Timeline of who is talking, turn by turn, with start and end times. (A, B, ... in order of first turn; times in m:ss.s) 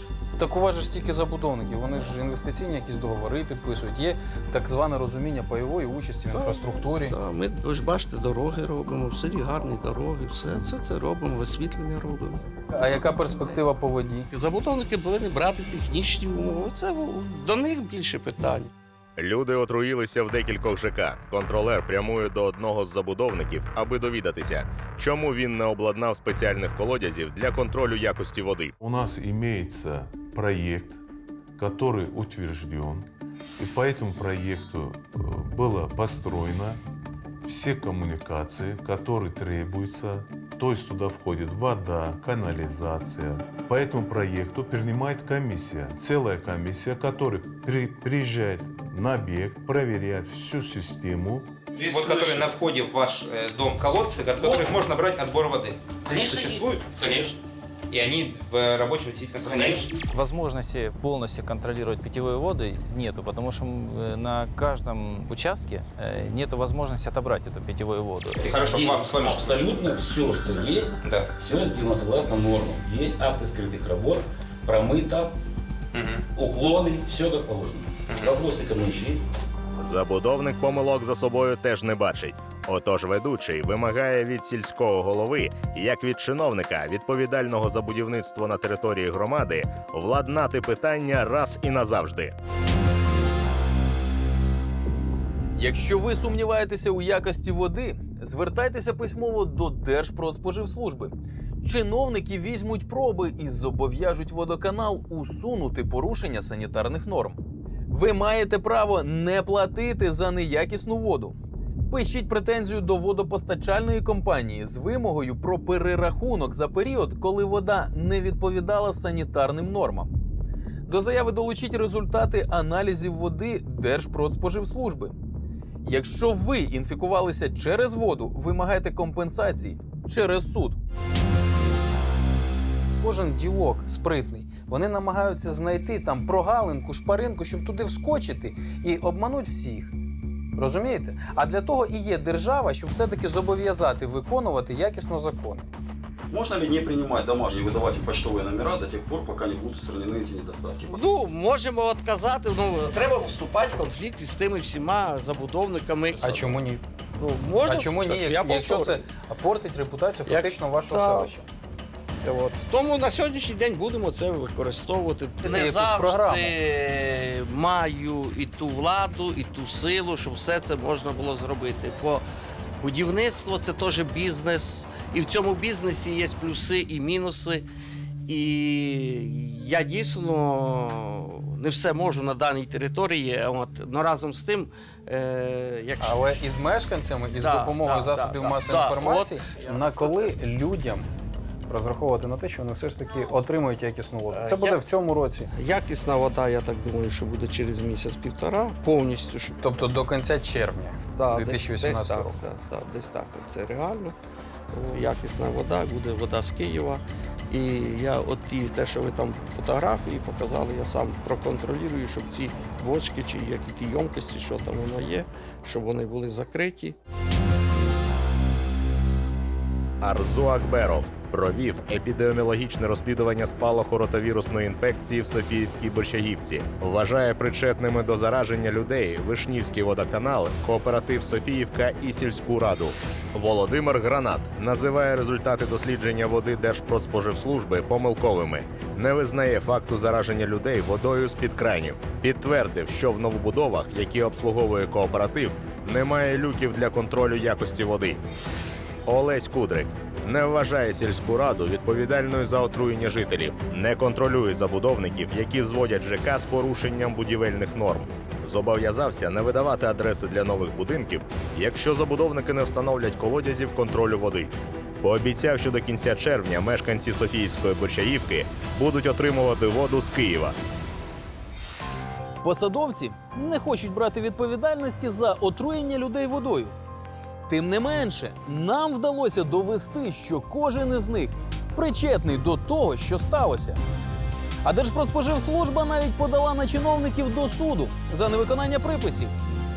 0:00.4-0:07.2 A
0:06.3-0:12.4 B
0:12.7-0:14.3 A
0:14.3-0:18.7 B
0:19.2-0:28.7 C
0:28.8-0:31.0 D
0:31.6-0:33.0 D
0:33.6-0:36.8 D
0:37.4-0:51.5 D
0:51.7-0:57.3 E
0:54.4-0:54.7 F
0:56.0-0:57.3 F
0:57.9-0:59.9 E
0:59.5-0:59.9 F
1:00.1-1:08.6 G
1:08.4-1:09.7 E
1:08.5-1:15.3 F
1:11.0-1:11.3 E
1:15.9-1:16.2 E
1:16.4-1:19.2 F
1:18.1-1:18.3 E
1:19.8-1:32.3 C
1:35.6-1:51.4 A
1:51.9-2:00.1 A
2:00.9-2:05.1 A
2:05.8-2:10.8 A
2:13.0-2:19.9 A
2:20.6-2:25.7 A
2:26.3-2:31.0 H
2:30.9-2:36.6 B
2:36.2-2:36.8 A
2:37.2-2:39.0 B
2:37.6-2:41.4 A
2:40.3-2:41.3 B
2:42.2-2:52.2 B
2:45.4-2:46.6 A
2:52.8-2:57.6 B
2:58.3-3:06.4 B
3:06.0-3:11.1 A
3:07.4-3:10.2 B
3:11.7-3:15.5 A
3:14.3-3:14.8 B
3:15.5-3:19.6 B
3:19.6-3:22.4 A
3:21.2-3:24.1 B
3:24.7-3:37.0 B
3:40.0-4:08.2 C
4:09.0-4:30.6 C
4:32.4-4:36.7 A
4:37.5-4:43.8 A
4:44.6-4:49.3 A